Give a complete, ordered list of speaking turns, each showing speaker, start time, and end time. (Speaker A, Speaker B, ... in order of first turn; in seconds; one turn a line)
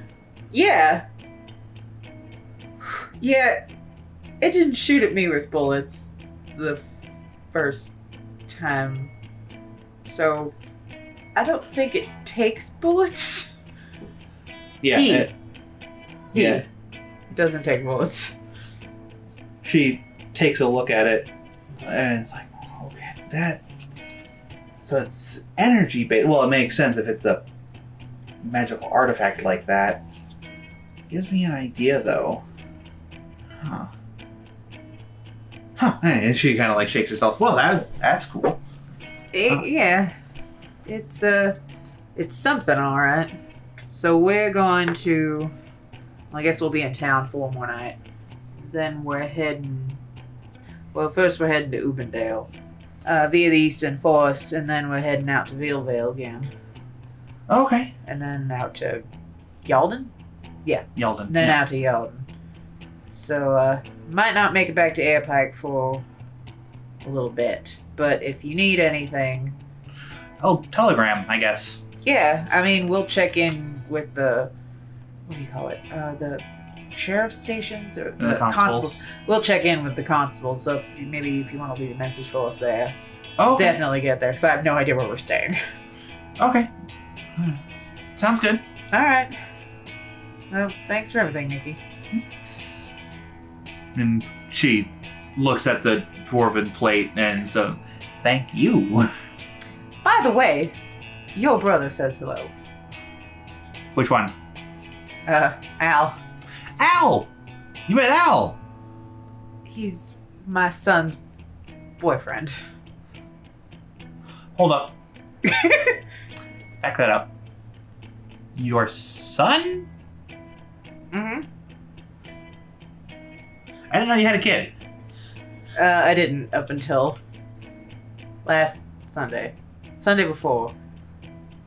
Speaker A: 0.5-1.1
Speaker A: 2.8-3.7
Speaker A: 4.4-6.8
Speaker A: 7.5-8.0
Speaker A: 8.5-9.1
Speaker A: 10.0-10.5
Speaker A: 11.3-13.6
Speaker B: 14.8-15.3
Speaker A: 14.9-15.3
Speaker A: 16.3-16.6
Speaker B: 16.3-16.6
Speaker A: 17.3-18.4
Speaker B: 19.6-23.6
Speaker B: 24.9-27.4
Speaker B: 28.4-30.1
Speaker B: 31.1-32.4
Speaker B: 33.6-33.9
Speaker B: 35.8-38.6
Speaker A: 39.3-40.1
Speaker A: 40.9-41.6
Speaker A: 42.2-43.4
Speaker A: 43.9-45.5
Speaker A: 46.3-48.0
Speaker A: 48.6-50.0
Speaker A: 50.9-52.5
Speaker A: 53.0-56.5
Speaker B: 57.5-57.9
Speaker A: 58.0-59.0
Speaker A: 59.6-60.1
Speaker A: 60.6-62.3
Speaker B: 61.0-61.6
Speaker A: 63.1-66.0
Speaker A: 67.0-69.6
Speaker B: 70.4-71.8
Speaker A: 72.0-74.5
Speaker A: 75.3-83.0
Speaker B: 78.2-79.0
Speaker B: 83.4-83.8
Speaker A: 83.5-85.6
Speaker B: 86.4-86.7
Speaker B: 87.4-87.6
Speaker B: 88.2-88.6
Speaker A: 88.9-89.4
Speaker A: 90.5-91.8
Speaker B: 93.9-99.1
Speaker A: 100.0-100.7
Speaker A: 101.3-102.5
Speaker B: 104.0-104.3
Speaker A: 105.3-106.2
Speaker B: 106.8-107.3
Speaker B: 107.9-108.6
Speaker A: 109.7-111.2
Speaker A: 112.0-112.5
Speaker B: 114.5-115.0
Speaker A: 115.5-116.0
Speaker B: 116.8-117.3
Speaker B: 118.5-119.9
Speaker A: 121.1-121.5
Speaker B: 123.9-124.7
Speaker A: 125.8-127.2
Speaker A: 128.4-130.7